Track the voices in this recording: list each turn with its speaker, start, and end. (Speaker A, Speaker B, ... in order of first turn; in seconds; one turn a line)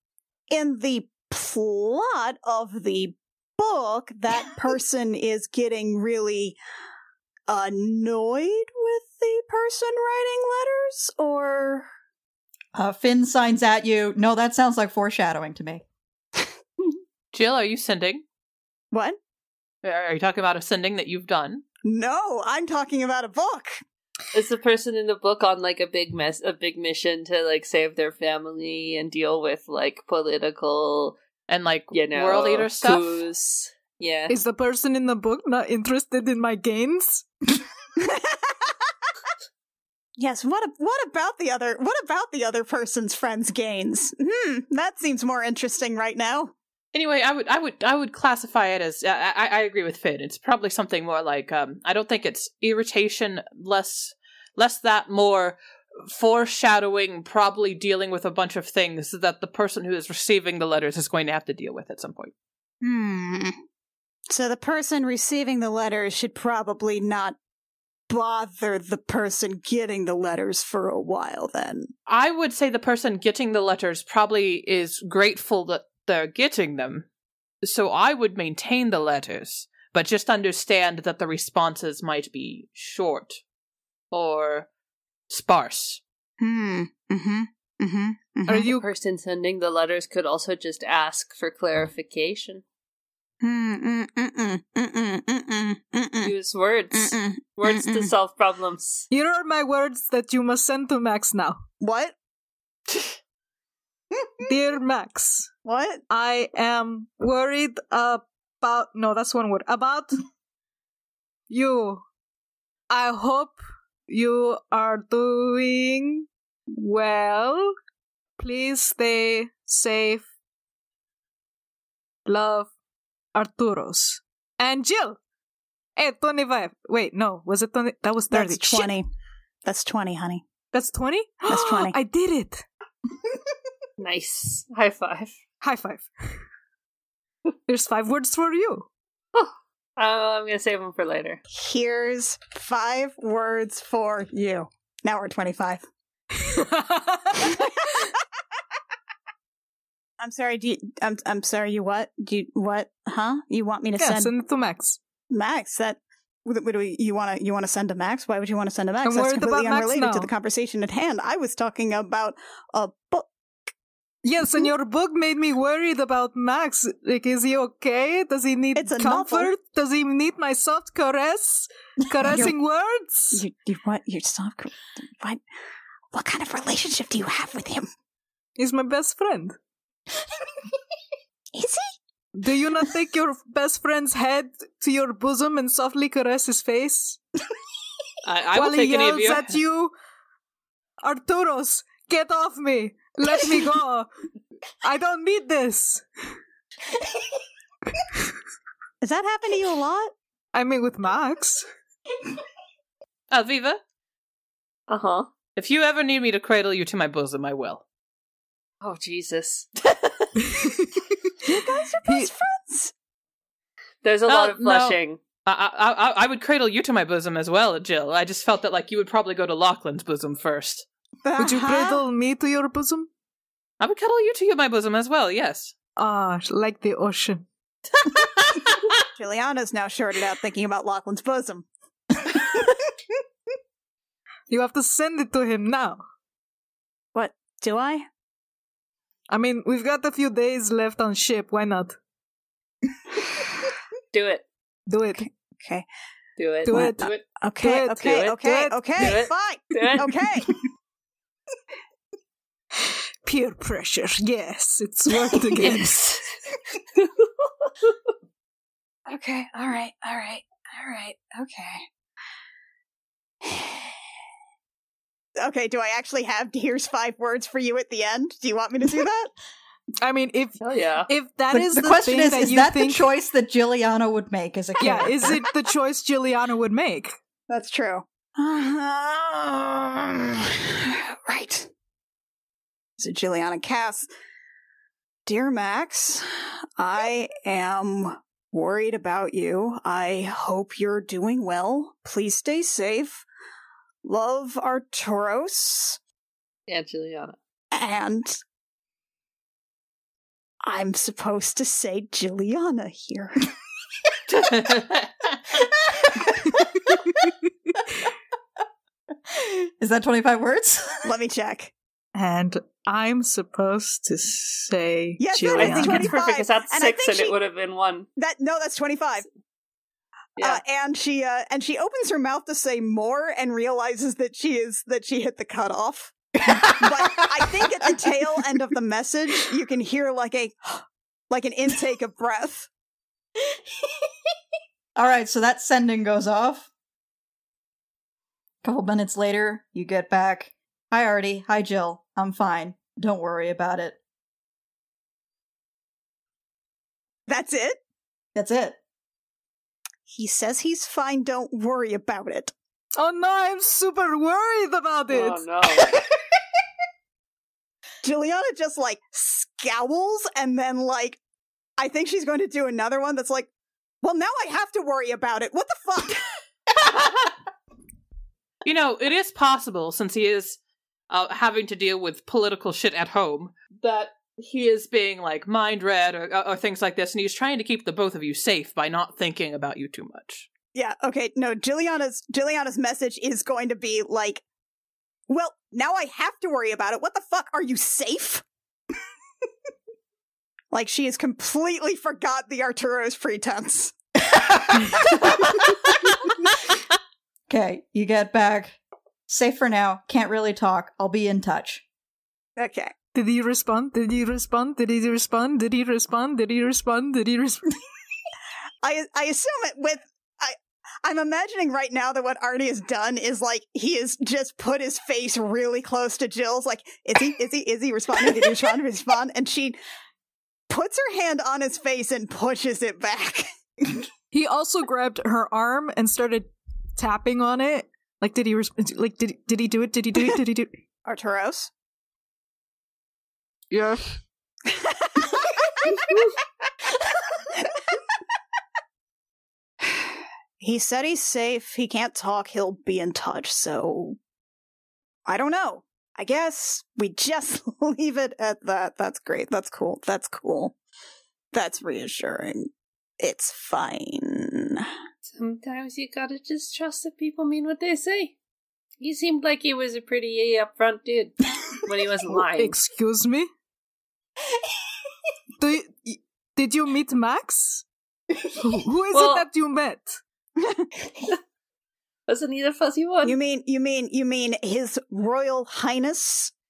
Speaker A: 0.5-6.6
Speaker A: 7.5-11.9
Speaker B: 12.8-15.8
Speaker C: 17.3-18.2
Speaker A: 18.9-19.2
Speaker C: 19.8-21.6
Speaker A: 21.9-23.8
Speaker D: 24.3-31.2
Speaker C: 31.5-33.2
Speaker D: 31.9-34.4
Speaker E: 34.3-37.3
Speaker A: 38.0-38.8
Speaker A: 40.2-46.5
Speaker C: 46.9-62.3
Speaker A: 62.8-63.5
Speaker A: 64.3-67.4
Speaker A: 68.1-71.9
Speaker C: 72.1-77.1
Speaker C: 77.6-83.4
Speaker C: 84.1-84.7
Speaker C: 85.3-86.0
Speaker A: 86.4-88.7
Speaker E: 88.5-88.8
Speaker D: 88.6-92.6
Speaker A: 93.4-96.3
Speaker D: 96.2-99.1
Speaker A: 96.9-98.1
Speaker E: 99.1-101.6
Speaker A: 101.8-102.2
Speaker E: 104.4-105.5
Speaker A: 105.7-106.0
Speaker E: 106.1-110.2
Speaker E: 111.5-112.0
Speaker E: 112.9-117.7
Speaker E: 118.4-120.3
Speaker E: 122.3-122.7
Speaker E: 123.3-125.2
Speaker E: 126.0-128.9
Speaker A: 128.3-129.1
Speaker A: 129.6-130.4
Speaker E: 130.7-132.7
Speaker A: 131.5-132.0
Speaker D: 134.0-135.3
Speaker E: 135.6-136.1
Speaker E: 137.7-138.9
Speaker D: 139.3-141.4
Speaker A: 141.5-145.9
Speaker E: 146.3-147.7
Speaker A: 150.2-154.3
Speaker E: 154.0-155.0
Speaker A: 155.3-163.7
Speaker E: 159.0-160.3
Speaker E: 164.2-173.4
Speaker A: 168.8-169.5
Speaker A: 172.2-172.6
Speaker A: 173.3-175.4
Speaker A: 176.1-177.9
Speaker E: 178.6-179.6
Speaker A: 181.5-181.9
Speaker E: 182.3-187.2
Speaker C: 188.2-189.6
Speaker E: 188.6-189.9
Speaker E: 191.0-194.1
Speaker E: 194.8-196.1
Speaker E: 198.0-198.2
Speaker A: 199.0-200.1
Speaker E: 200.5-201.7
Speaker C: 203.3-203.8
Speaker D: 204.9-205.3
Speaker C: 205.6-207.8
Speaker D: 208.8-210.1
Speaker E: 210.4-211.5
Speaker A: 211.4-212.9
Speaker E: 212.1-212.3
Speaker D: 214.0-215.2
Speaker C: 214.3-220.9
Speaker A: 221.2-222.0
Speaker E: 221.4-223.1
Speaker C: 223.8-225.7
Speaker E: 226.0-227.5
Speaker C: 228.0-228.9
Speaker A: 229.2-231.7
Speaker B: 232.3-232.8
Speaker E: 234.5-236.0
Speaker A: 237.1-238.1
Speaker E: 239.3-242.0
Speaker D: 244.1-244.5
Speaker E: 244.9-245.3
Speaker A: 245.2-245.8
Speaker D: 246.4-247.2
Speaker E: 246.7-249.2
Speaker A: 246.7-250.6
Speaker D: 248.0-248.4
Speaker D: 249.0-250.2
Speaker E: 252.8-256.0
Speaker D: 255.6-256.3
Speaker D: 257.0-257.9
Speaker A: 259.1-261.9
Speaker A: 263.4-263.9
Speaker A: 265.4-269.3
Speaker E: 270.0-273.0
Speaker D: 270.6-271.1
Speaker B: 271.5-275.4
Speaker E: 274.8-277.1
Speaker A: 277.5-281.7
Speaker A: 283.0-284.1
Speaker A: 285.3-293.3
Speaker A: 294.0-296.0
Speaker D: 296.7-297.4
Speaker A: 297.7-298.4
Speaker A: 300.6-303.5
Speaker C: 304.3-305.5
Speaker B: 305.8-307.0
Speaker B: 309.3-311.1
Speaker A: 311.0-311.7
Speaker E: 312.1-316.2
Speaker A: 315.2-317.4
Speaker D: 315.5-318.1
Speaker A: 318.2-319.3
Speaker A: 320.4-326.1
Speaker B: 326.4-328.0
Speaker A: 326.8-332.7
Speaker B: 335.0-336.7
Speaker B: 338.6-344.0
Speaker A: 347.3-347.8
Speaker B: 348.4-348.8
Speaker A: 350.1-352.5
Speaker E: 353.0-355.4
Speaker D: 355.1-355.9
Speaker B: 355.9-356.4
Speaker A: 358.0-361.2
Speaker A: 361.8-363.5
Speaker A: 364.0-366.2
Speaker C: 366.9-367.2
Speaker C: 368.6-370.6
Speaker C: 371.1-380.5
Speaker A: 380.7-384.4
Speaker A: 385.3-388.4
Speaker A: 390.7-393.9
Speaker B: 394.2-396.1
Speaker B: 397.5-398.8
Speaker B: 399.3-401.8
Speaker A: 402.6-402.9
Speaker E: 403.1-407.8
Speaker A: 408.8-419.8
Speaker A: 420.7-423.5
Speaker E: 424.3-430.8
Speaker A: 431.1-431.7
Speaker E: 433.7-434.0
Speaker A: 434.7-435.3
Speaker A: 439.8-444.2
Speaker A: 445.3-450.8
Speaker A: 451.5-452.7
Speaker A: 453.2-454.9
Speaker D: 455.4-458.4
Speaker D: 459.0-462.8
Speaker E: 462.5-463.5
Speaker E: 465.6-467.9
Speaker E: 468.6-470.2
Speaker D: 469.1-469.5
Speaker A: 470.6-470.9
Speaker D: 472.3-473.4
Speaker A: 473.2-476.5